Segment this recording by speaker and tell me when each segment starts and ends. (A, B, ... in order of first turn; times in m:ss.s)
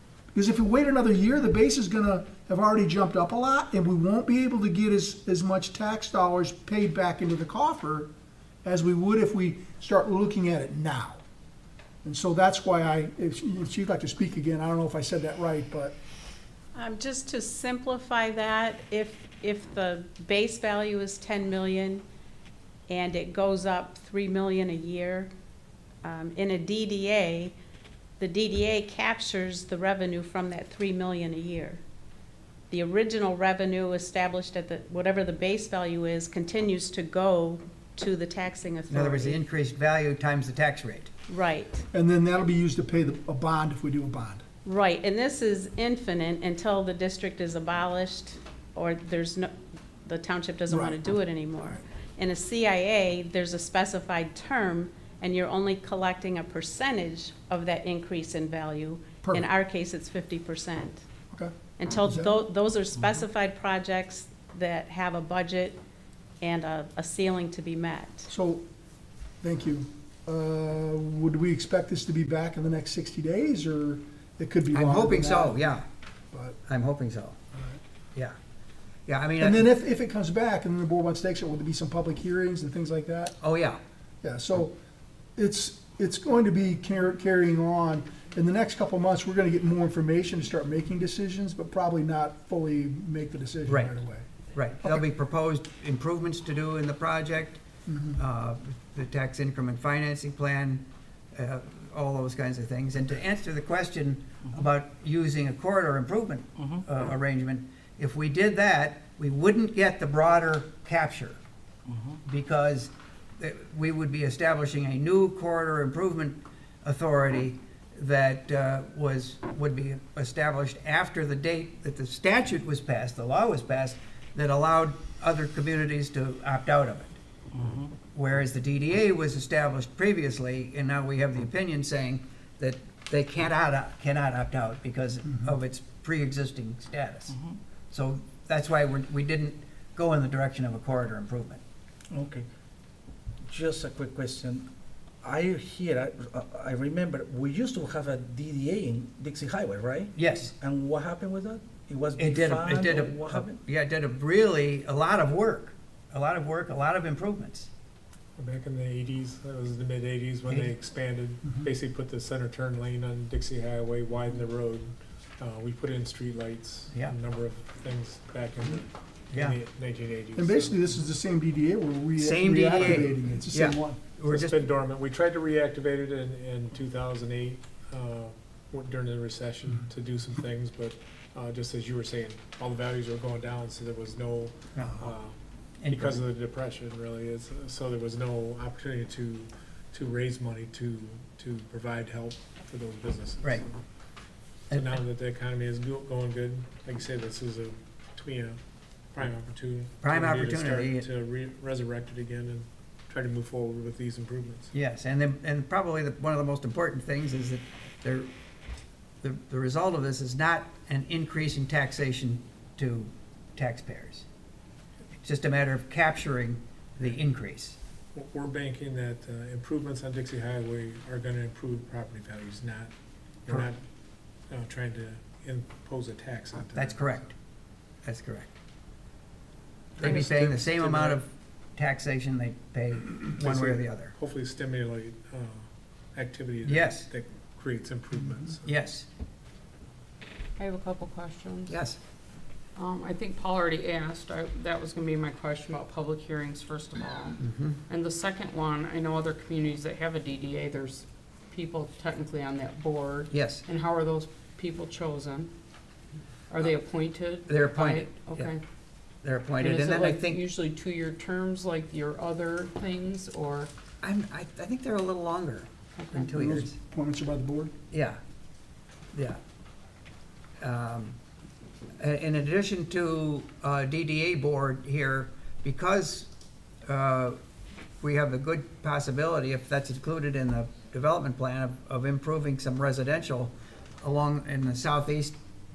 0:00.3-0:08.1 A
0:08.6-0:11.2 A
0:12.0-0:16.0 A
0:16.8-0:22.0 B
0:22.9-0:25.3 B
0:26.0-0:27.6 B
0:28.2-0:31.8 B
0:32.7-0:39.4 B
0:38.9-0:41.1 C
0:41.3-0:41.9 B
0:41.9-0:44.4 A
0:44.6-0:49.5 B
0:50.0-1:01.0 B
0:50.7-0:51.0 A
1:01.8-1:05.8 B
1:02.1-1:02.3 A
1:06.4-1:08.3 B
1:08.3-1:08.6 A
1:09.4-1:15.6 A
1:14.7-1:15.8 C
1:16.7-1:17.4 C
1:19.1-1:19.7 C
1:19.4-1:23.4 A
1:23.4-1:23.8 C
1:24.2-1:24.8 A
1:25.4-1:34.3 A
1:33.7-1:33.9 C
1:34.6-1:37.6 C
1:37.9-1:38.2 A
1:38.2-1:51.4 C
1:51.9-1:52.2 D
1:52.2-2:07.2 C
2:07.5-2:07.8 D
2:08.1-2:17.4 C
2:17.9-2:21.6 C
2:22.1-2:22.5 D
2:23.5-2:24.7 D
2:25.2-2:30.1 D
2:30.2-2:30.5 C
2:30.6-2:33.5 D
2:32.2-2:37.7 C
2:38.4-2:50.8 E
2:49.3-2:49.6 C
2:50.4-2:54.0 A
2:52.2-2:54.6 C
2:54.3-3:05.4 E
3:04.8-3:05.1 C
3:05.8-3:06.2 C
3:05.9-3:13.8 E
3:14.7-3:15.0 C
3:14.7-3:18.6 E
3:19.1-3:24.7 E
3:20.0-3:21.1 C
3:24.7-3:28.3 C
3:29.2-3:34.3 C
3:35.2-3:37.8 C
3:38.2-3:42.9 E
3:43.4-3:43.8 E
3:44.5-3:47.2 E
3:46.7-3:47.3 C
3:48.0-3:48.5 C
3:50.0-3:51.2 E
3:50.0-3:54.1 C
3:53.4-3:58.7 E
3:56.6-3:57.1 C
3:58.6-3:59.1 C
4:00.6-4:01.8 F
4:01.7-4:02.0 C
4:02.8-4:15.5 F
4:07.4-4:07.8 C
4:13.3-4:13.6 C
4:16.5-4:18.6 F
4:17.5-4:18.5 C
4:19.2-4:20.4 C
4:19.6-4:23.7 F
4:24.0-4:26.8 C
4:26.0-4:26.3 F
4:26.3-4:27.7 A
4:27.9-4:28.2 C
4:29.1-4:29.4 C
4:30.6-4:31.2 C
4:32.0-4:36.3 C
4:36.9-4:37.4 C
4:38.0-4:45.4 C